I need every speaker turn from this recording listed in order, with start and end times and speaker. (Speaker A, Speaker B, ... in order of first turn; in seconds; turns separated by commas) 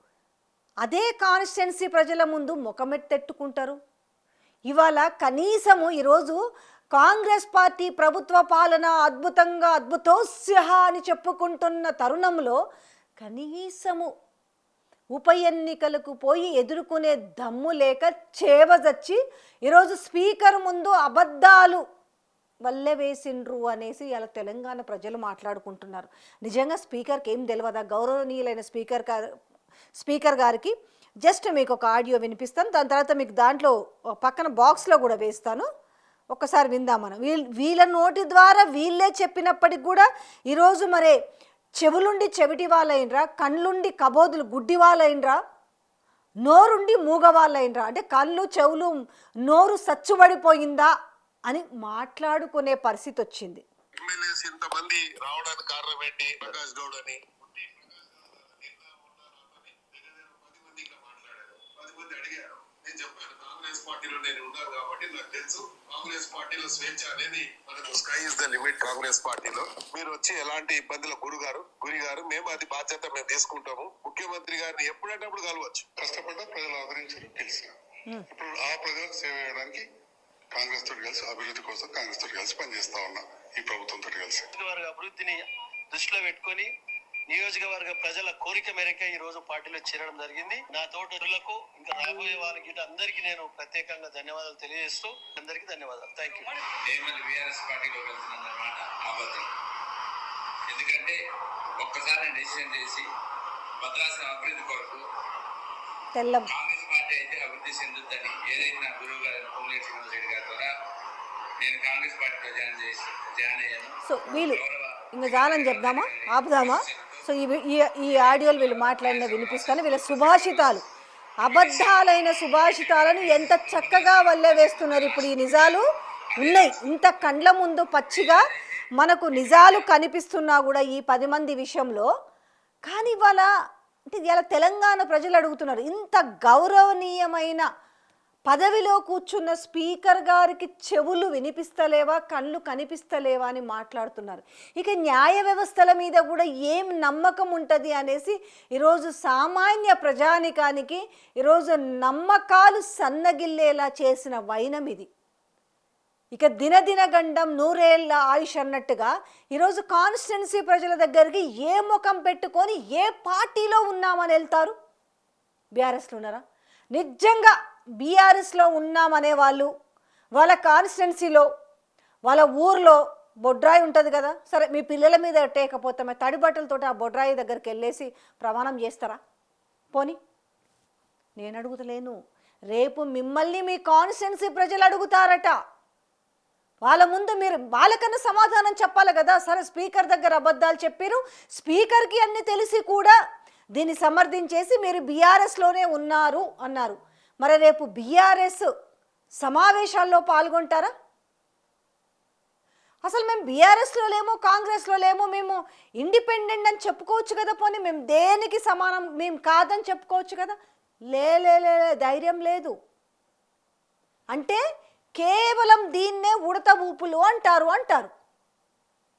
Speaker A: 0.8-3.8, Speaker A: 4.7-6.4, Speaker A: 6.9-12.6, Speaker A: 13.2-14.1, Speaker A: 15.1-21.8, Speaker A: 22.6-29.3, Speaker A: 29.9-30.7, Speaker A: 31.2-35.6, Speaker A: 36.3-41.2, Speaker A: 41.8-45.4, Speaker A: 46.4-48.9, Speaker A: 49.5-50.9, Speaker A: 51.5-53.6, Speaker B: 54.0-75.9, Speaker C: 76.0-79.8, Speaker C: 80.5-84.5, Speaker D: 84.5-85.4, Speaker D: 85.9-86.7, Speaker D: 87.3-96.5, Speaker E: 96.8-99.5, Speaker E: 100.7-101.2, Speaker E: 101.8-103.1, Speaker E: 103.8-105.0, Speaker A: 106.1-106.5, Speaker E: 106.5-110.7, Speaker E: 111.6-117.3, Speaker A: 114.0-114.6, Speaker A: 115.1-120.8, Speaker E: 118.0-120.8, Speaker A: 121.4-125.8, Speaker E: 121.4-122.0, Speaker E: 122.5-129.9, Speaker A: 126.4-132.1, Speaker A: 132.8-133.5, Speaker A: 134.1-137.7, Speaker A: 138.5-155.1, Speaker A: 156.3-164.7, Speaker A: 165.8-166.4, Speaker A: 166.9-169.7, Speaker A: 170.3-171.4, Speaker A: 172.3-179.2, Speaker A: 181.4-182.2, Speaker A: 182.7-185.6, Speaker A: 186.8-193.2, Speaker A: 193.7-198.7, Speaker A: 199.4-200.9, Speaker A: 203.0-210.6, Speaker A: 211.1-212.7, Speaker A: 214.3-214.6, Speaker A: 215.2-218.1